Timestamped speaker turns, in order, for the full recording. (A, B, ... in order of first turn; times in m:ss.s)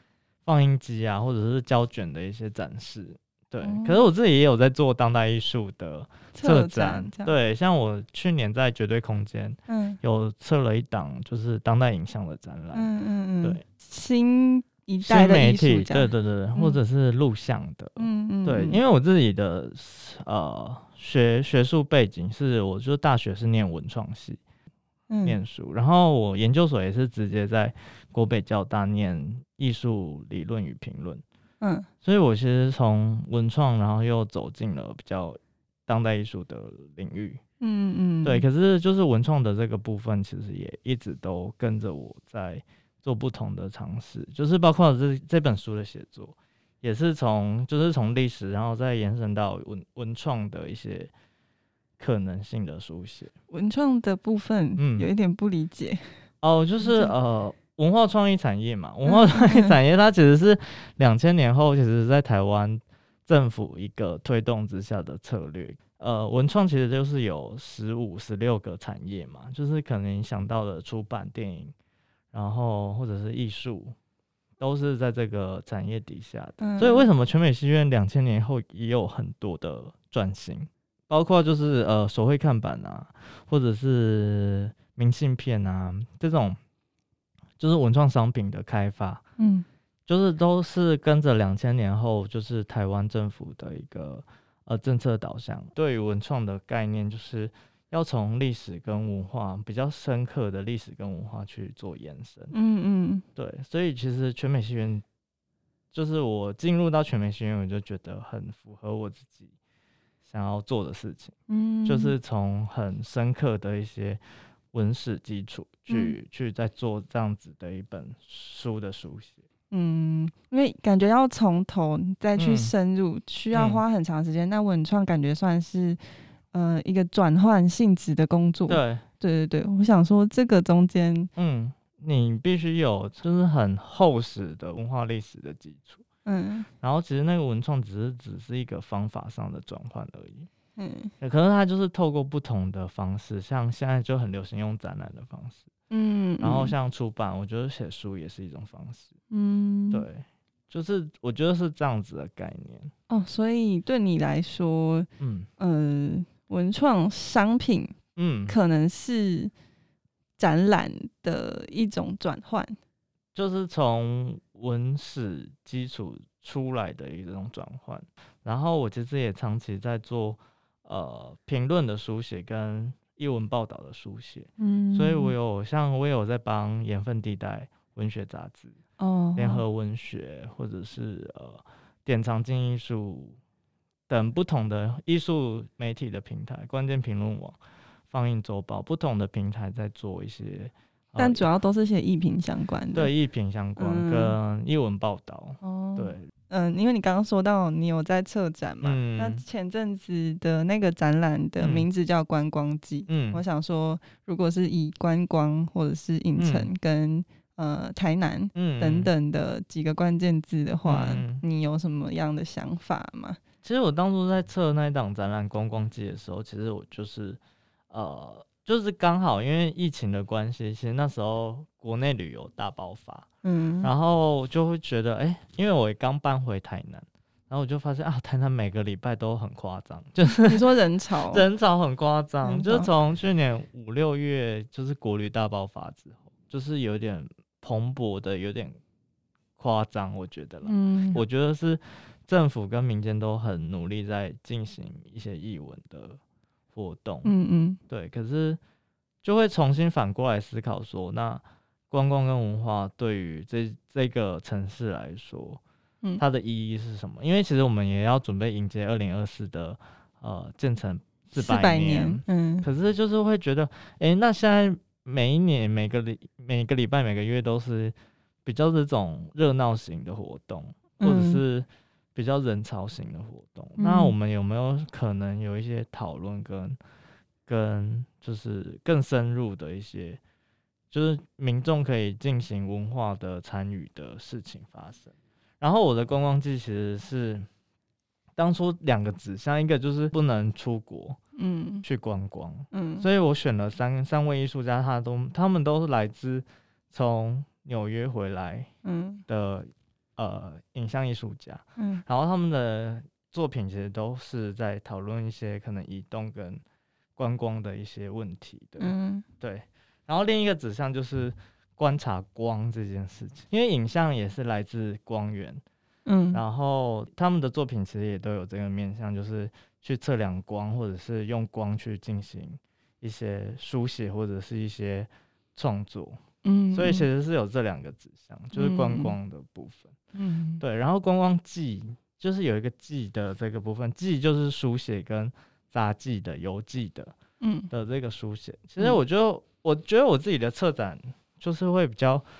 0:00.4-0:12.9 A
0:03.6-0:04.0 B
0:06.3-0:07.3 B
0:09.7-0:10.0 B
0:12.7-0:16.8 B
0:15.0-0:24.4 A
0:18.0-0:18.8 B
0:25.1-0:25.4 B
0:25.2-0:31.2 A
0:31.6-0:31.9 B
0:32.0-0:37.4 A
0:37.6-0:38.4 B
0:38.2-0:51.1 A
0:52.0-0:53.3 A
0:53.5-0:56.0 B
0:54.8-0:55.1 A
0:56.4-1:11.7 A
0:56.8-0:57.1 B
0:59.0-0:59.8 B
1:12.3-1:13.9 A
1:14.6-1:26.6 A
1:16.6-1:17.1 B
1:27.6-1:29.2 A
1:29.4-1:29.6 B
1:30.1-1:42.5 A
1:42.5-1:43.2 B
1:43.4-1:45.0 A
1:45.9-1:49.5 A
1:50.2-1:51.3 A
1:51.5-1:52.2 B
1:51.8-1:54.2 A
1:54.7-1:59.4 A
1:55.9-1:56.2 B
1:59.7-2:06.0 B
2:02.4-2:02.7 A
2:03.5-2:03.8 A
2:06.5-2:11.3 B
2:08.7-2:09.0 A
2:11.4-2:16.0 A
2:16.2-2:16.7 B
2:16.8-2:20.5 A
2:20.8-2:21.1 B
2:21.2-2:25.7 A
2:25.9-2:26.7 B
2:26.4-2:29.1 A
2:29.3-2:30.0 B
2:29.9-2:32.9 A
2:33.1-2:38.0 B
2:35.2-2:35.5 A
2:38.2-2:38.5 A
2:38.5-2:39.5 B
2:40.4-2:42.7 B
2:43.3-2:58.8 A
2:54.6-2:55.3 B
2:59.0-2:59.6 B
2:59.4-3:03.4 A
3:04.1-3:07.6 A
3:08.1-3:11.5 A
3:11.2-3:13.1 B
3:12.9-3:16.3 A
3:13.8-3:14.4 B
3:15.6-3:33.4 B
3:18.8-3:19.4 A
3:21.6-3:21.9 A
3:23.1-3:23.4 A
3:26.4-3:26.7 A
3:28.5-3:29.1 A
3:30.8-3:31.4 A
3:33.6-3:43.3 A
3:43.4-3:43.9 B
3:43.8-3:58.8 A
3:50.4-3:51.4 B
3:52.4-3:52.9 B
3:59.6-4:06.2 A
4:00.6-4:01.2 B
4:06.7-4:07.3 A
4:07.2-4:07.8 B
4:07.9-4:08.6 A
4:09.2-4:15.6 A
4:16.2-4:36.8 A
4:21.3-4:22.7 B
4:31.0-4:31.4 B
4:33.8-4:34.1 B
4:37.5-4:40.2 A
4:40.9-4:47.5 A
4:48.4-4:51.2 A
4:51.4-4:51.8 B
4:51.8-4:58.7 A
4:52.7-4:53.1 B
4:58.8-4:59.2 B
4:59.3-5:06.6 A
5:01.8-5:02.0 B
5:07.2-5:15.6 A
5:08.8-5:09.2 B
5:16.0-5:16.4 B
5:16.3-5:26.2 A
5:26.4-5:27.1 B
5:26.7-5:30.0 A
5:28.5-5:29.1 B
5:30.1-5:30.6 B
5:30.6-5:37.1 A
5:37.4-5:37.7 B
5:37.7-5:42.2 A